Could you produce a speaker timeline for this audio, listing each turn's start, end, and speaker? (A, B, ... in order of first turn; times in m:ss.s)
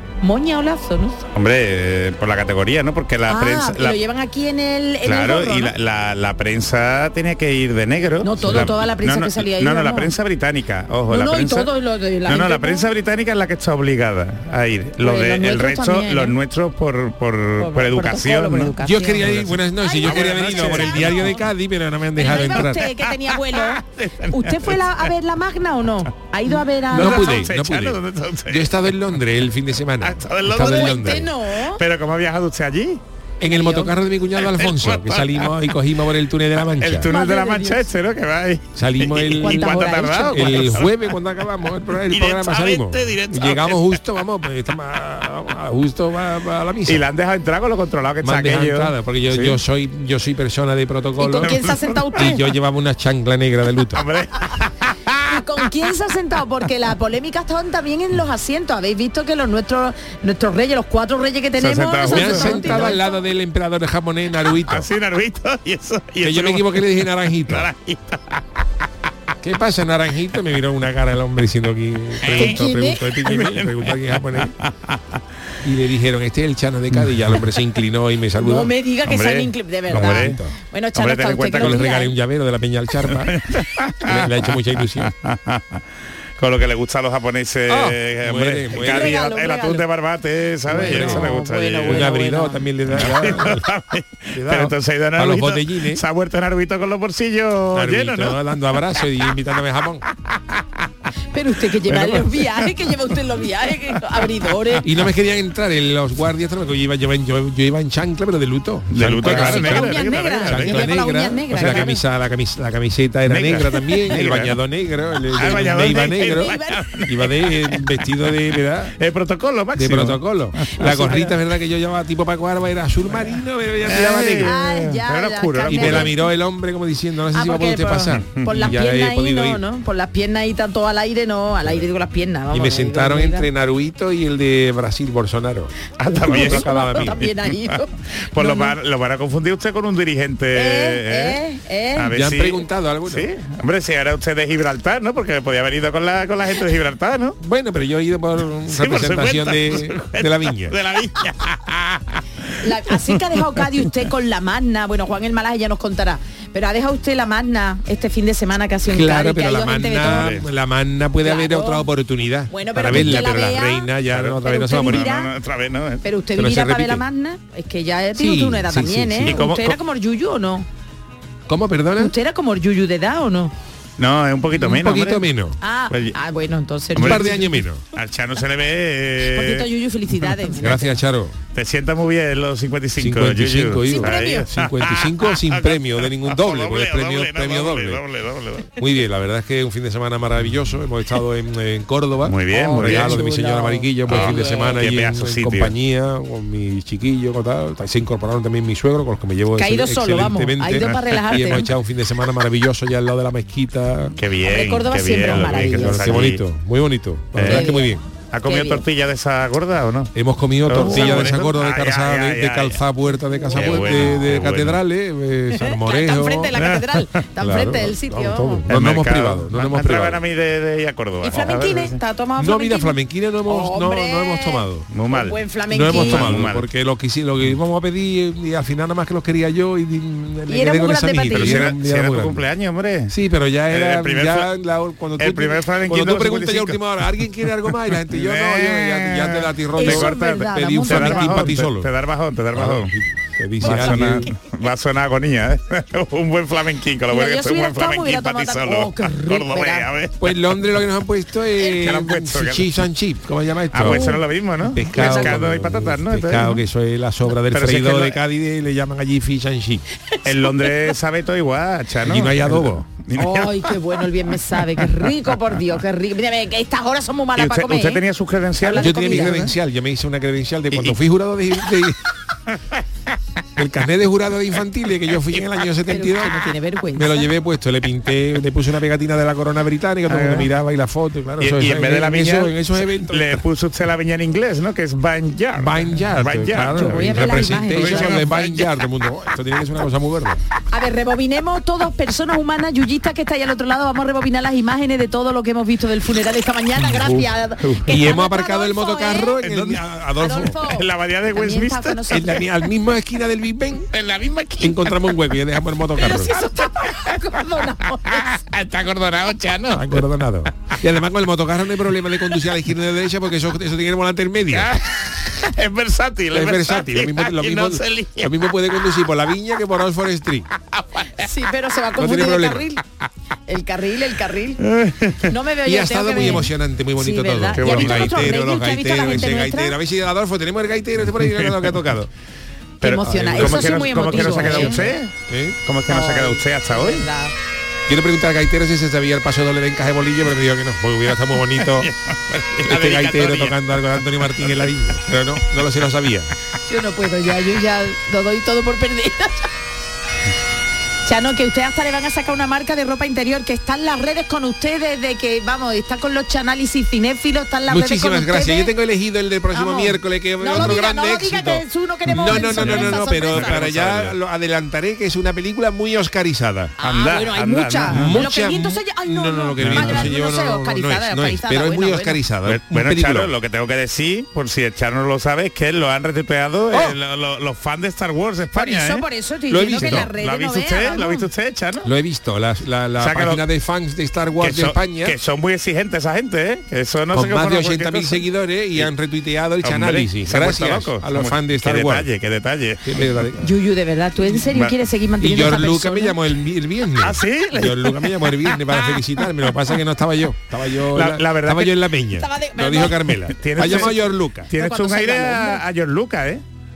0:00.2-0:01.2 A
0:01.4-0:04.0 B
0:03.3-0:05.7 A
0:05.0-0:11.7 B
0:08.2-0:10.1 A
0:08.4-0:08.7 C
0:11.1-0:12.8 A
0:12.3-0:21.4 B
0:15.0-0:16.4 A
0:17.6-0:21.5 A
0:18.8-0:22.9 C
0:22.2-0:27.4 A
0:22.3-0:25.1 B
0:26.9-0:28.7 B
0:26.9-0:31.3 C
0:30.0-0:33.0 B
0:30.5-0:31.8 A
0:33.4-0:37.1 C
0:33.4-0:34.0 A
0:34.4-0:35.5 B
0:36.8-0:40.9 B
0:37.1-0:37.9 A
0:38.8-0:47.0 C
0:39.4-0:40.8 A
0:42.1-0:44.0 B
0:46.9-0:49.6 B
0:48.2-0:54.1 C
0:51.2-0:52.4 A
0:51.4-0:52.4 B
0:53.9-0:55.4 B
0:55.3-1:03.1 A
1:01.6-1:02.9 B
1:02.0-1:04.9 C
1:04.5-1:08.5 B
1:06.2-1:07.7 C
1:09.4-1:14.5 C
1:12.2-1:12.6 B
1:12.3-1:13.1 A
1:13.2-1:15.2 B
1:15.6-1:18.7 C
1:18.4-1:22.1 A
1:19.0-1:20.4 B
1:19.9-1:20.6 C
1:21.0-1:21.8 B
1:21.6-1:23.4 C
1:23.1-1:25.8 B
1:24.0-1:25.1 C
1:26.4-1:32.1 B
1:27.7-1:29.3 C
1:28.7-1:29.9 A
1:30.7-1:32.6 A
1:30.7-1:31.3 C
1:31.8-1:33.7 C
1:32.9-1:38.4 B
1:34.3-1:36.0 C
1:37.7-1:40.0 C
1:40.3-1:40.6 B
1:41.3-1:44.9 A
1:41.8-1:42.9 B
1:44.8-1:59.0 C
1:48.9-1:51.0 B
1:49.2-1:52.0 A
1:51.5-1:51.9 B
1:53.3-1:54.6 B
1:55.3-1:57.9 B
1:56.2-1:57.0 A
1:58.9-2:01.2 B
1:59.8-2:04.5 C
2:00.8-2:01.3 A
2:03.9-2:06.1 B
2:04.4-2:06.3 A
2:05.7-2:09.6 C
2:07.3-2:13.5 A
2:08.1-2:08.7 B
2:12.5-2:17.2 C
2:16.0-2:17.8 B
2:16.2-2:18.8 A
2:18.3-2:21.4 B
2:20.5-2:22.1 A
2:22.0-2:27.4 B
2:22.1-2:23.3 C
2:27.4-2:30.8 C
2:28.7-2:32.5 B
2:32.6-2:40.3 A
2:38.9-2:45.1 C
2:40.0-2:40.5 B
2:41.2-2:41.9 A
2:42.5-2:45.3 A
2:42.9-2:43.3 B
2:44.1-2:46.0 B
2:46.0-2:50.7 A
2:46.4-2:47.0 C
2:48.2-2:49.4 C
2:49.2-2:49.8 B
2:51.5-2:52.1 C
2:52.0-2:53.5 A
2:54.0-2:55.2 B
2:54.5-2:55.6 C
2:55.6-2:57.5 A
2:55.9-2:56.2 B
2:56.9-2:59.7 B
2:57.0-2:57.8 C
2:59.2-3:01.0 A
3:00.6-3:01.4 C
3:01.5-3:08.7 B
3:03.0-3:08.0 C
3:03.8-3:04.5 A
3:08.8-3:24.2 C
3:12.2-3:13.2 B
3:12.6-3:14.8 A
3:14.1-3:15.7 B
3:19.6-3:21.7 A
3:24.2-3:26.4 B
3:24.4-3:26.3 A
3:25.2-3:28.0 C
3:27.3-3:30.1 B
3:27.4-3:27.9 A
3:28.5-3:28.8 A
3:30.2-3:36.5 C
3:30.6-3:32.8 B
3:30.8-3:31.4 A
3:33.3-3:34.1 A
3:33.5-3:34.8 B
3:35.5-3:38.6 A
3:36.6-3:37.1 B
3:37.4-3:40.2 C
3:38.7-3:42.0 B
3:41.2-3:46.4 A
3:42.4-3:44.9 C
3:44.9-3:46.7 B
3:45.7-3:52.4 C
3:50.5-3:51.7 A
3:51.3-3:53.1 B
3:53.1-4:01.9 C
3:53.7-3:54.5 B
3:55.2-3:56.8 B
3:58.1-4:02.9 B
3:59.8-4:01.6 A
4:02.5-4:04.3 C
4:03.6-4:10.4 B
4:03.6-4:04.2 A
4:07.1-4:09.9 A
4:10.2-4:19.8 C
4:11.6-4:12.7 B
4:13.7-4:16.6 B
4:13.8-4:14.2 A
4:14.9-4:15.4 A
4:17.5-4:18.2 B
4:20.2-4:20.7 A
4:20.2-4:23.8 B
4:22.0-4:22.8 C
4:23.1-4:28.0 A
4:24.8-4:25.1 B
4:27.4-4:29.5 B
4:28.6-4:29.5 A
4:28.7-4:32.0 C
4:30.7-4:31.0 B
4:33.6-4:43.5 C
4:35.9-4:37.3 A
4:40.1-4:40.5 B
4:41.4-4:48.8 B
4:45.6-4:50.4 C
4:46.6-4:48.3 A
4:50.7-4:59.4 A
4:56.8-4:58.1 B
4:57.8-5:00.6 C
4:59.4-4:59.9 B
5:00.2-5:02.5 A
5:00.7-5:02.4 B
5:02.1-5:03.9 C
5:03.9-5:05.2 B
5:04.6-5:06.3 C
5:06.0-5:08.3 A
5:06.1-5:07.3 B
5:08.1-5:10.0 B
5:09.7-5:14.7 C
5:14.5-5:18.5 B
5:16.3-5:20.5 C
5:20.6-5:21.1 B
5:21.2-5:22.8 A
5:22.0-5:22.7 C
5:23.5-5:24.6 A
5:24.6-5:25.3 B
5:25.3-5:29.8 A
5:25.6-5:32.1 C
5:27.6-5:28.3 B
5:31.2-5:31.7 B
5:32.8-5:34.9 A
5:32.8-5:35.1 B
5:33.0-5:35.6 C
5:35.6-5:37.0 B
5:35.9-5:37.3 A
5:37.9-5:41.9 C
5:41.6-5:43.6 B
5:42.6-5:46.3 C
5:46.7-5:49.5 A
5:51.0-5:58.7 A
5:57.7-6:06.8 C
5:59.5-6:03.6 A
6:00.5-6:00.8 B
6:02.1-6:04.2 B
6:06.8-6:12.2 A
6:06.8-6:08.2 B
6:07.9-6:13.3 C
6:09.6-6:10.1 B
6:12.4-6:19.0 B
6:16.7-6:17.0 C
6:18.5-6:21.3 A
6:19.5-6:20.1 C
6:19.7-6:21.9 B
6:21.8-6:25.2 C
6:23.0-6:23.4 B
6:24.4-6:28.2 B
6:27.1-6:32.1 C
6:29.6-6:33.0 B
6:32.8-6:33.5 C
6:33.4-6:36.2 A
6:34.4-6:34.8 B
6:35.2-6:44.5 C
6:37.0-6:39.0 B
6:40.9-6:41.8 B
6:42.1-6:43.1 A
6:43.4-6:46.4 B
6:43.6-6:43.9 A
6:44.5-6:45.6 A